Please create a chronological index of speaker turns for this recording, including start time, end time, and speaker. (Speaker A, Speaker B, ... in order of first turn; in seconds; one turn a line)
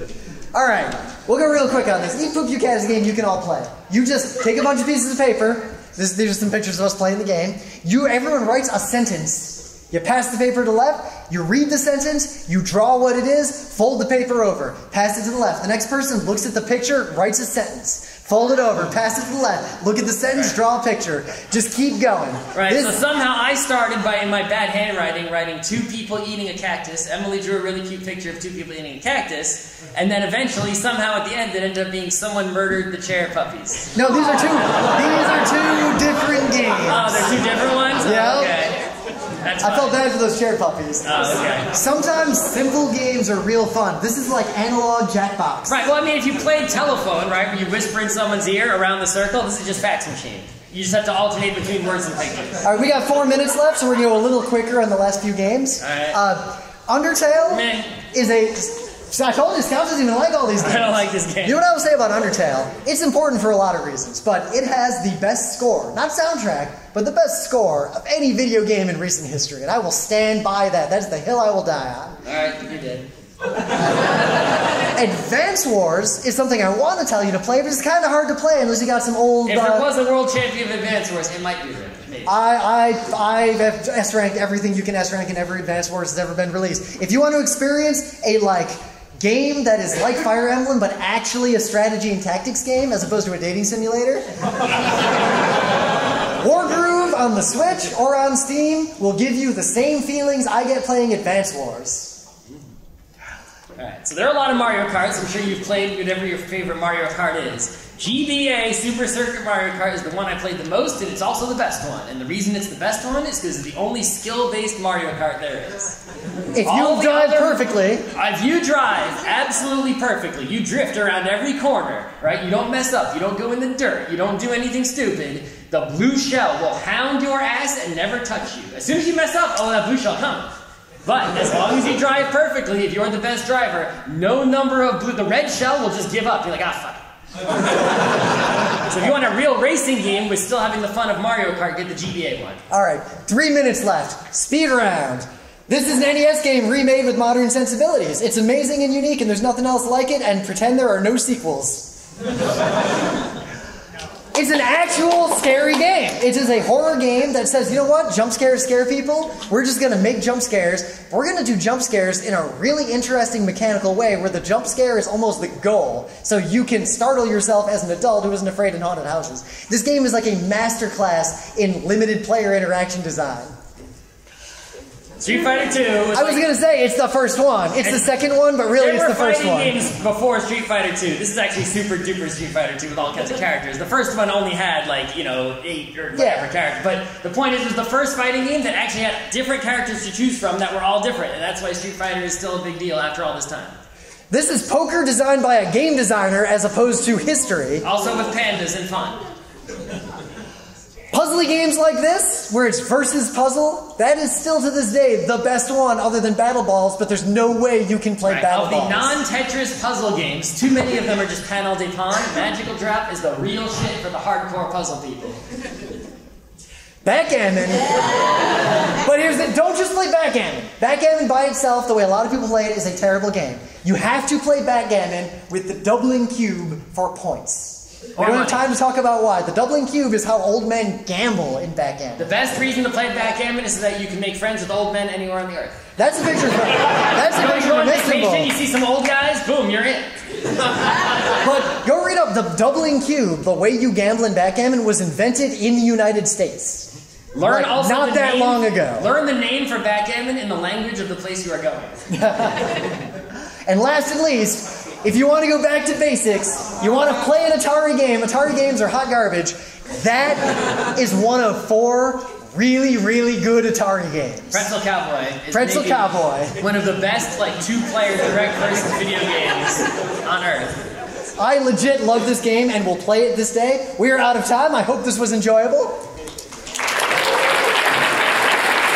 Speaker A: 0.5-23.0
Speaker B: 22.5-33.9
Speaker A: 33.9-38.6
Speaker B: 36.8-38.8
Speaker B: 39.4-40.0
Speaker A: 39.6-45.8
Speaker B: 41.0-41.7
Speaker B: 45.7-52.6
Speaker A: 52.6-72.2
Speaker B: 55.8-56.2
Speaker B: 57.5-57.9
Speaker B: 60.6-61.6
Speaker B: 72.2-73.1
Speaker A: 74.9-79.9
Speaker B: 79.5-82.3
Speaker A: 82.2-94.2
Speaker A: 96.4-102.2
Speaker B: 103.8-116.0
Speaker A: 116.5-118.0
Speaker B: 116.6-130.5
Speaker B: 131.1-137.1
Speaker B: 138.8-142.6
Speaker A: 142.7-151.9
Speaker A: 154.3-173.5
Speaker B: 175.2-176.4
Speaker A: 176.1-179.8
Speaker B: 178.7-193.8
Speaker A: 186.2-186.5
Speaker A: 194.3-197.8
Speaker B: 197.8-199.2
Speaker A: 201.1-209.2
Speaker B: 208.2-215.4
Speaker A: 217.0-232.3
Speaker B: 228.2-228.6
Speaker B: 232.2-235.8
Speaker A: 236.0-238.5
Speaker B: 236.9-240.1
Speaker A: 241.3-246.9
Speaker B: 247.3-252.0
Speaker A: 247.4-249.1
Speaker A: 252.1-252.9
Speaker A: 253.7-264.7
Speaker B: 264.5-270.8
Speaker A: 265.5-266.5
Speaker A: 271.4-276.0